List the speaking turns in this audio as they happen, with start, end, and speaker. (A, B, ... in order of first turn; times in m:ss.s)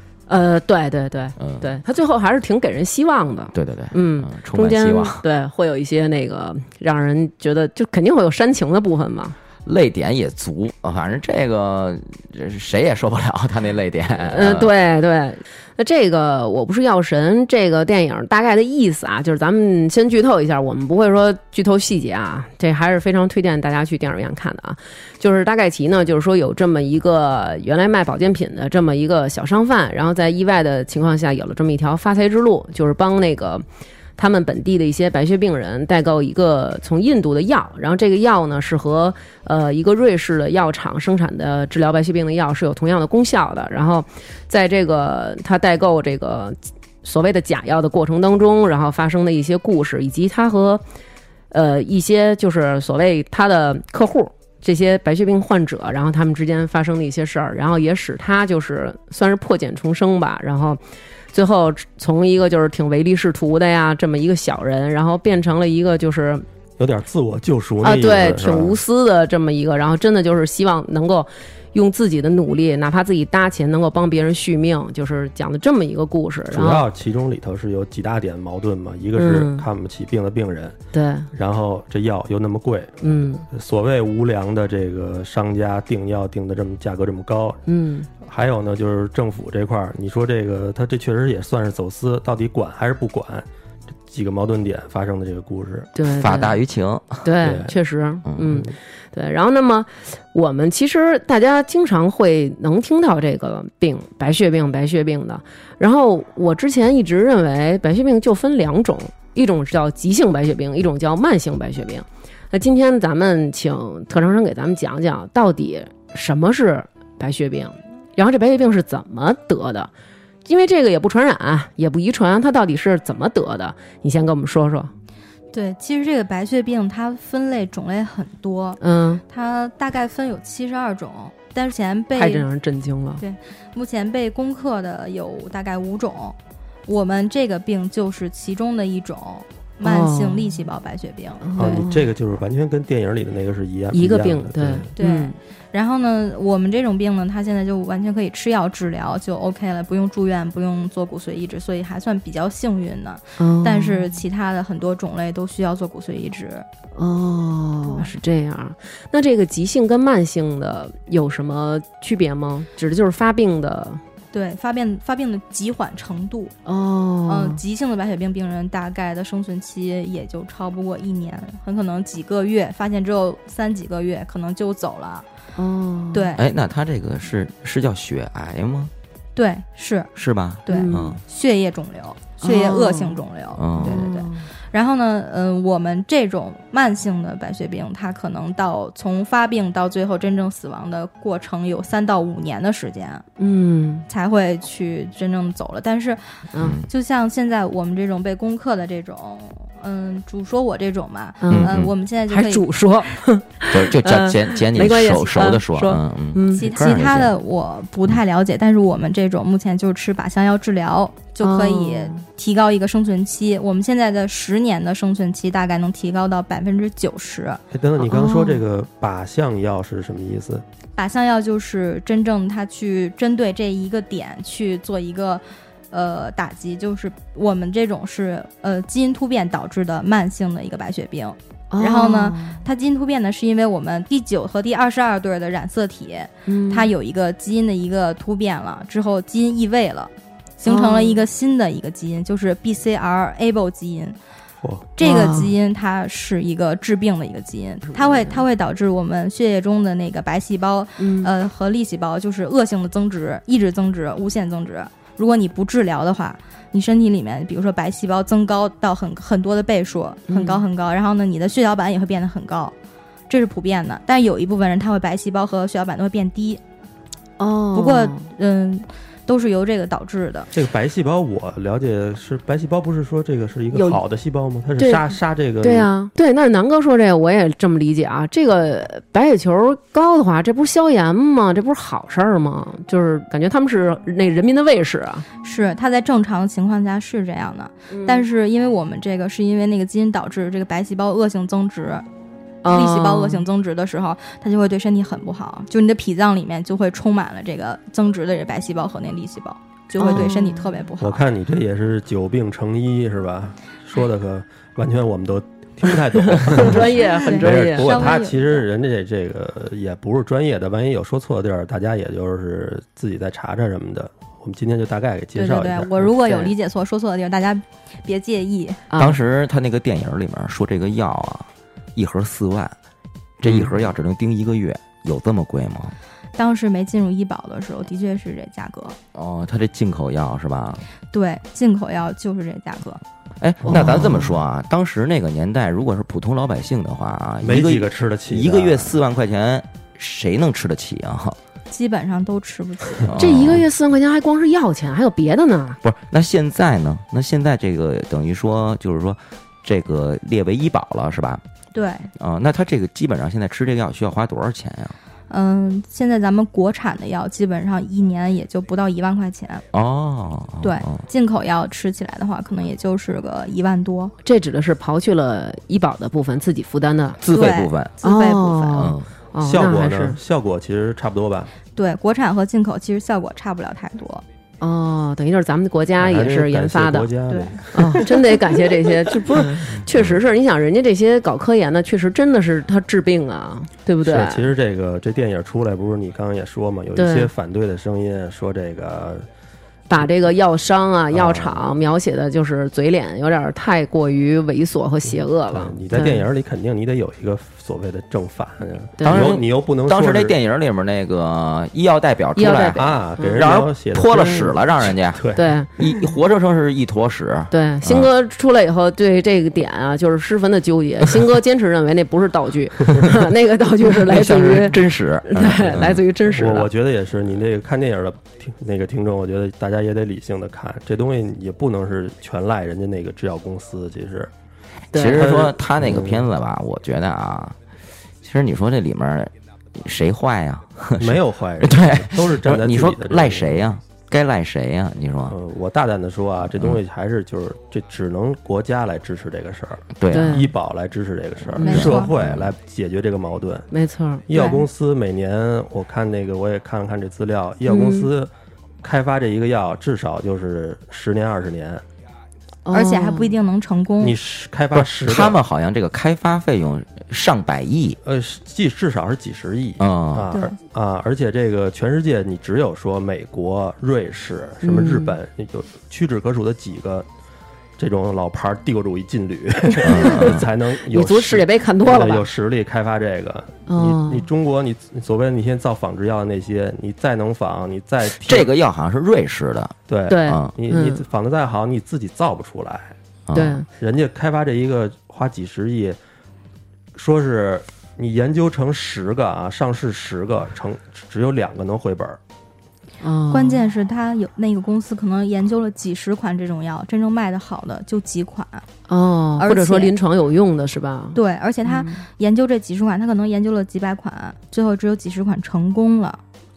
0:00.3-0:09.4 A
0:01.4-0:01.8 B
0:03.5-0:05.2 B
0:09.6-0:14.7 B
0:14.2-0:33.6 A
0:34.2-0:50.8 A
0:51.5-1:00.8 A
1:01.3-1:06.5 A
1:06.8-1:08.8 C
1:07.8-1:16.8 A
1:16.5-1:20.8 C
1:19.2-1:19.7 A
1:20.9-1:21.3 A
1:21.3-1:23.0 C
1:23.0-1:23.5 A
1:23.5-1:27.6 C
1:27.7-1:28.1 A
1:28.2-1:33.5 C
1:34.1-1:35.9 C
1:36.0-1:36.6 A
1:36.2-1:37.2 B
1:37.2-1:59.9 A
1:37.4-1:37.7 C
1:38.3-1:38.5 B
2:00.4-2:04.9 A
2:05.5-2:12.5 D
2:08.8-2:09.2 A
2:12.2-2:13.2 A
2:13.2-2:21.5 D
2:19.8-2:20.5 A
2:21.4-2:22.1 A
2:21.6-2:24.9 C
2:23.9-2:25.4 A
2:25.0-2:36.7 D
2:33.4-2:34.1 A
2:37.0-2:44.0 A
2:44.3-2:46.6 D
2:46.7-2:47.6 A
2:47.3-2:55.3 D
2:55.6-2:56.4 A
2:56.1-2:56.4 D
2:56.4-2:58.9 B
2:59.4-3:00.1 D
3:00.2-3:01.2 B
3:00.7-3:13.3 D
3:00.7-3:01.2 A
3:02.4-3:03.2 A
3:03.6-3:04.1 B
3:03.8-3:04.5 A
3:13.4-3:14.1 A
3:14.1-3:22.7 D
3:16.5-3:16.8 A
3:16.6-3:16.9 B
3:21.4-3:21.7 A
3:21.5-3:21.9 B
3:22.3-3:27.3 A
3:23.7-3:27.3 B
3:26.6-3:37.6 D
3:31.4-3:32.2 A
3:37.7-3:40.6 C
3:38.0-3:38.6 A
3:41.0-4:04.2 D
3:51.7-3:52.6 A
3:56.5-3:56.9 A
4:00.6-4:01.2 A
4:04.6-4:04.9 C
4:05.0-4:22.8 D
4:05.0-4:05.5 A
4:07.9-4:08.4 A
4:11.0-4:11.3 A
4:20.3-4:20.6 A
4:23.3-4:26.6 D
4:27.4-4:28.3 A
4:27.7-4:30.5 D
4:30.5-4:35.9 C
4:33.7-4:34.0 A
4:34.8-4:45.3 A
4:45.4-4:52.0 D
4:47.9-4:48.2 A
4:52.6-4:53.5 A
4:52.7-5:01.2 D
5:00.0-5:00.7 A
5:01.0-5:16.5 C
5:06.2-5:08.2 A
5:07.2-5:08.6 D
5:15.4-5:18.8 D
5:18.9-5:19.2 A
5:19.0-5:22.8 B
5:23.4-5:26.0 B
5:23.4-5:23.7 C
5:26.4-5:29.0 D
5:29.1-5:30.8 B
5:31.1-5:33.0 D
5:33.4-5:41.4 B
5:33.6-5:34.0 C
5:33.7-5:34.3 A
5:37.4-5:39.0 C
5:41.7-5:43.1 D
5:43.0-5:43.6 B
5:43.2-5:45.8 A
5:45.8-5:51.4 B
5:51.7-5:52.1 D
5:52.2-5:55.0 B
5:55.3-5:59.6 D
5:59.7-6:01.0 B
6:00.6-6:04.1 D
6:04.2-6:07.2 A
6:07.2-6:08.0 B
6:07.3-6:08.9 D
6:08.0-6:10.2 A
6:08.7-6:09.1 B
6:09.4-6:11.5 C
6:11.8-6:14.2 D
6:14.6-6:17.1 A
6:16.0-6:18.6 C
6:17.3-6:17.6 D
6:17.7-6:24.5 A
6:19.9-6:20.2 B
6:24.0-6:29.3 C
6:27.0-6:27.3 A
6:29.9-6:36.2 A
6:31.1-6:31.6 C
6:35.5-6:40.4 C
6:39.0-6:39.4 A
6:39.0-6:48.1 B
6:42.4-6:43.4 A
6:42.7-6:45.5 C
6:45.4-6:45.7 A
6:47.5-6:56.7 A
6:54.0-6:56.0 B
6:56.3-7:04.3 C
7:04.9-7:05.2 A
7:04.9-7:07.6 B
7:05.0-7:06.3 C
7:08.2-7:15.4 B
7:11.0-7:13.7 C
7:15.3-7:23.7 C
7:20.0-7:20.4 B
7:20.1-7:20.5 A
7:21.5-7:22.0 A
7:21.6-7:22.1 D
7:21.7-7:22.5 B
7:23.7-7:24.3 A
7:24.3-7:28.3 C
7:24.3-7:24.7 D
7:27.7-7:28.1 A
7:28.8-7:31.8 C
7:32.6-7:33.4 A
7:32.7-7:34.2 D
7:34.0-7:35.4 C
7:34.8-7:38.0 B
7:38.0-7:47.1 C
7:39.8-7:40.3 B
7:40.3-7:40.6 D
7:44.6-7:45.1 A
7:47.8-7:58.5 C
7:49.8-7:50.5 B
7:49.9-7:52.3 A
7:53.7-7:54.2 A
7:58.2-8:00.5 B
7:59.9-8:03.0 C
8:00.1-8:01.0 A
8:03.3-8:03.6 B
8:03.3-8:03.7 A
8:03.8-8:06.0 C
8:07.0-8:12.2 C
8:13.0-8:13.6 A
8:13.3-8:18.7 D
8:18.9-8:22.0 A
8:19.4-8:20.0 D
8:21.2-8:26.2 D